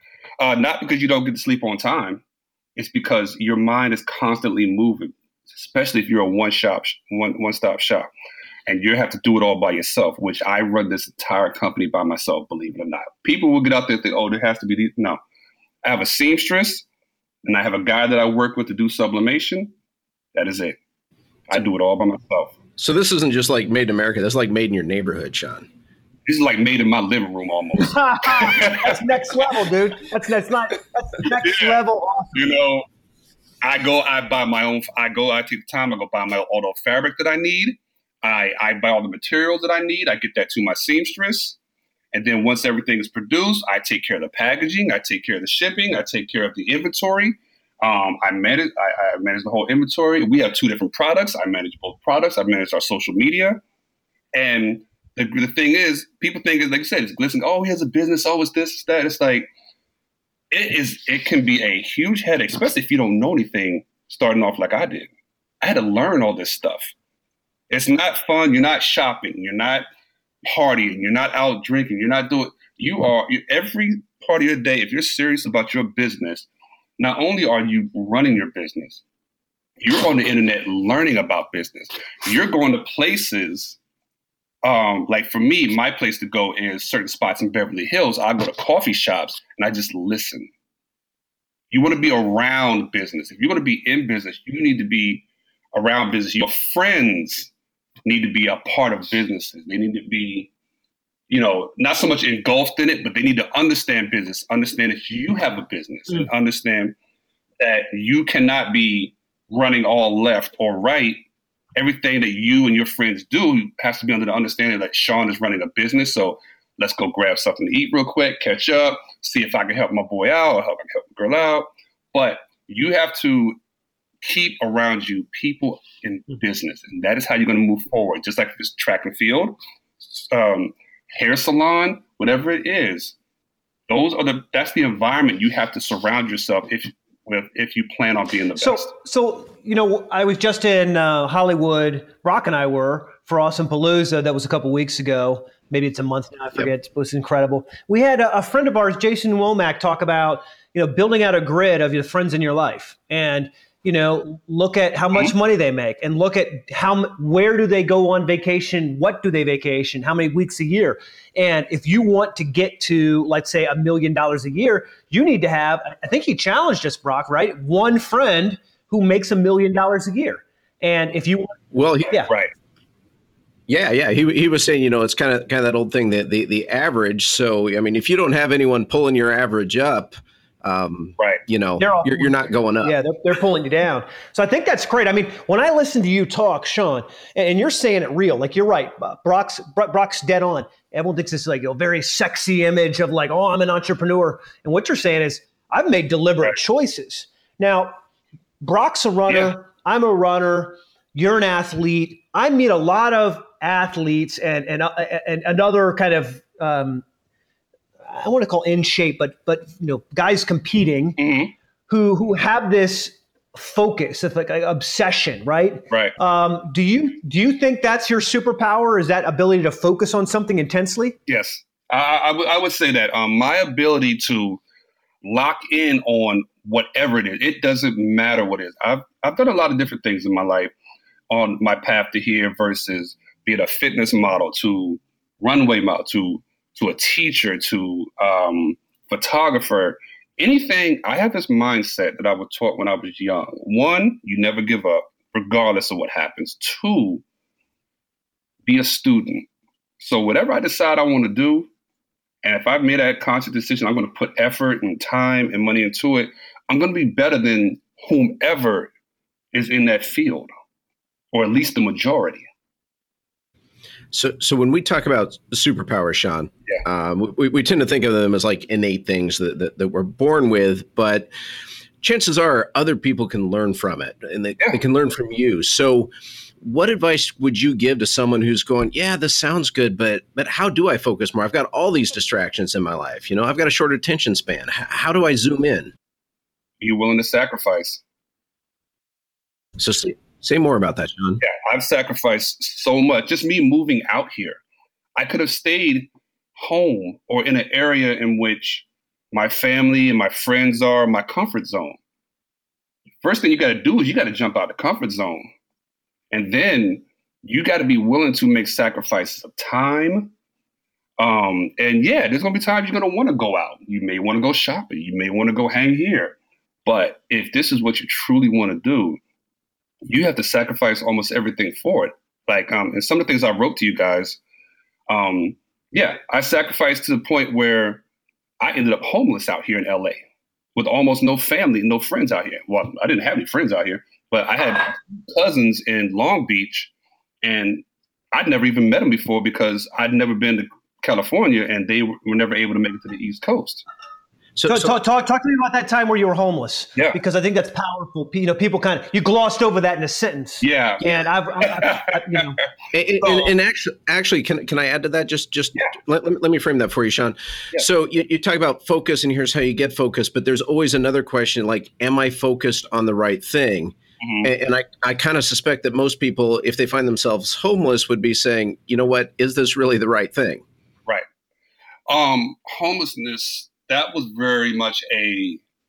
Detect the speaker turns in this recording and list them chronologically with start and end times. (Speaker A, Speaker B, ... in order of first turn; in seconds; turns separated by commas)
Speaker A: 0.4-2.2, Speaker A: 2.8-8.1, Speaker A: 8.7-15.2, Speaker A: 15.8-16.9, Speaker A: 17.4-19.7, Speaker A: 20.3-20.8, Speaker A: 21.5-22.5, Speaker B: 22.8-25.7, Speaker A: 26.3-29.6, Speaker C: 27.8-32.3, Speaker A: 31.4-31.8, Speaker A: 32.3-32.8, Speaker A: 33.6-41.6, Speaker A: 42.1-53.6, Speaker A: 54.3-59.5, Speaker A: 60.5-65.1, Speaker A: 65.6-66.9, Speaker A: 67.7-69.8, Speaker A: 70.5-76.5, Speaker A: 77.0-79.0, Speaker A: 79.8-83.8, Speaker A: 84.6-90.5, Speaker A: 91.7-97.5, Speaker A: 98.0-100.5, Speaker A: 101.3-106.9, Speaker A: 107.6-111.2, Speaker A: 111.8-123.6, Speaker A: 124.2-133.1, Speaker A: 133.9-138.9, Speaker C: 138.6-171.6, Speaker B: 171.7-172.1, Speaker B: 173.7-183.0, Speaker C: 181.8-197.9, Speaker C: 198.6-207.0, Speaker C: 208.1-211.2, Speaker A: 211.2-211.5, Speaker C: 211.9-221.1, Speaker A: 221.3-224.6, Speaker A: 225.2-230.7, Speaker A: 231.3-247.2, Speaker A: 248.7-249.4, Speaker A: 250.0-251.7, Speaker A: 252.4-258.9, Speaker A: 259.5-260.5, Speaker A: 261.3-262.4, Speaker B: 264.1-271.3, Speaker B: 272.0-285.9, Speaker A: 286.8-288.0, Speaker B: 289.8-291.4, Speaker A: 291.4-294.6, Speaker A: 295.1-302.0, Speaker A: 303.2-305.5, Speaker A: 306.3-310.3, Speaker A: 311.2-319.2, Speaker A: 320.1-324.4, Speaker A: 325.1-328.0, Speaker A: 328.6-330.2, Speaker A: 330.8-336.9, Speaker A: 337.4-343.8, Speaker B: 344.6-345.0, Speaker C: 344.7-352.6, Speaker A: 350.6-352.5, Speaker B: 352.9-370.6, Speaker A: 364.2-364.5, Speaker A: 372.1-375.6